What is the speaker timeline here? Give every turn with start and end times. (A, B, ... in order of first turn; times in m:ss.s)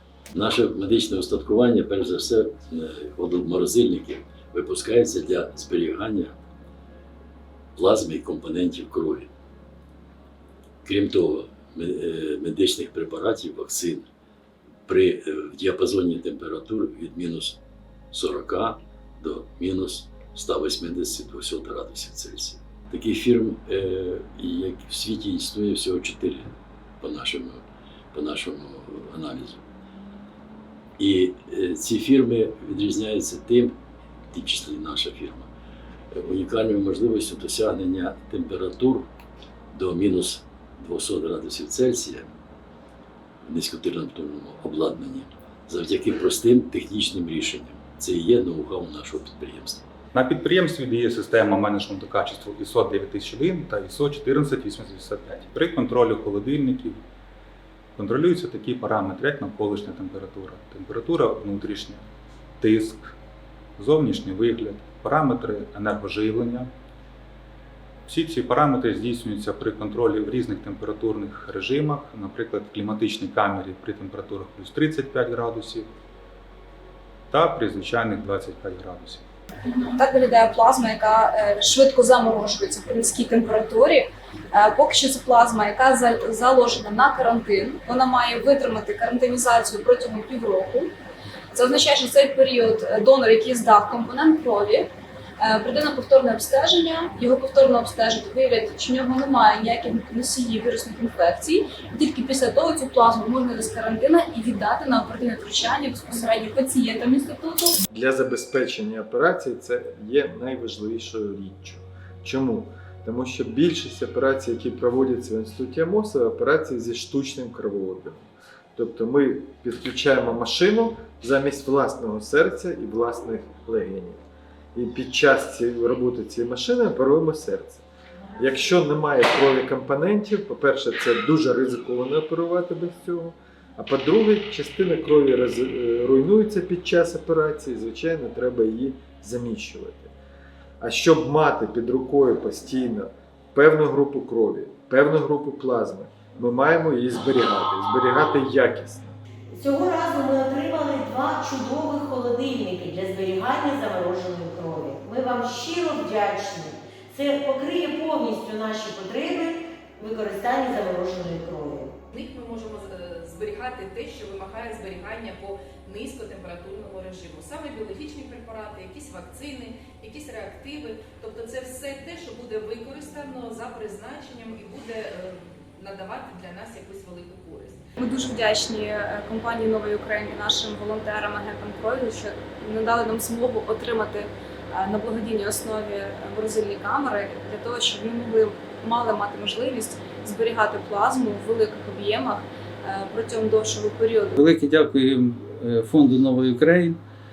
0:00.3-0:06.4 A
0:07.8-0:09.3 A
0:10.8-0:14.1 A
0:14.9-0:17.6 A
0:18.1-0:27.6 A
0:28.1-0:29.6 A
0:31.0-0:33.8 A
0:34.3-0:35.5 A
0:36.1-0:39.1 A
0:39.7-0:42.3 A
0:43.5-0:49.8 A
0:50.1-0:57.0 B
0:58.0-1:02.0 B
1:02.6-1:03.1 B
1:03.8-1:06.7 B
1:08.1-1:15.9 B
1:17.3-1:19.2 B
1:19.7-1:30.9 C
1:31.5-1:34.9 C
1:35.4-1:47.8 C
1:47.9-2:04.2 D
2:04.8-2:07.8 D
2:08.4-2:20.2 D
2:20.8-2:29.2 D
2:29.5-2:41.9 E
2:42.1-2:57.8 F
2:58.0-3:14.4 C
3:14.4-3:17.0 G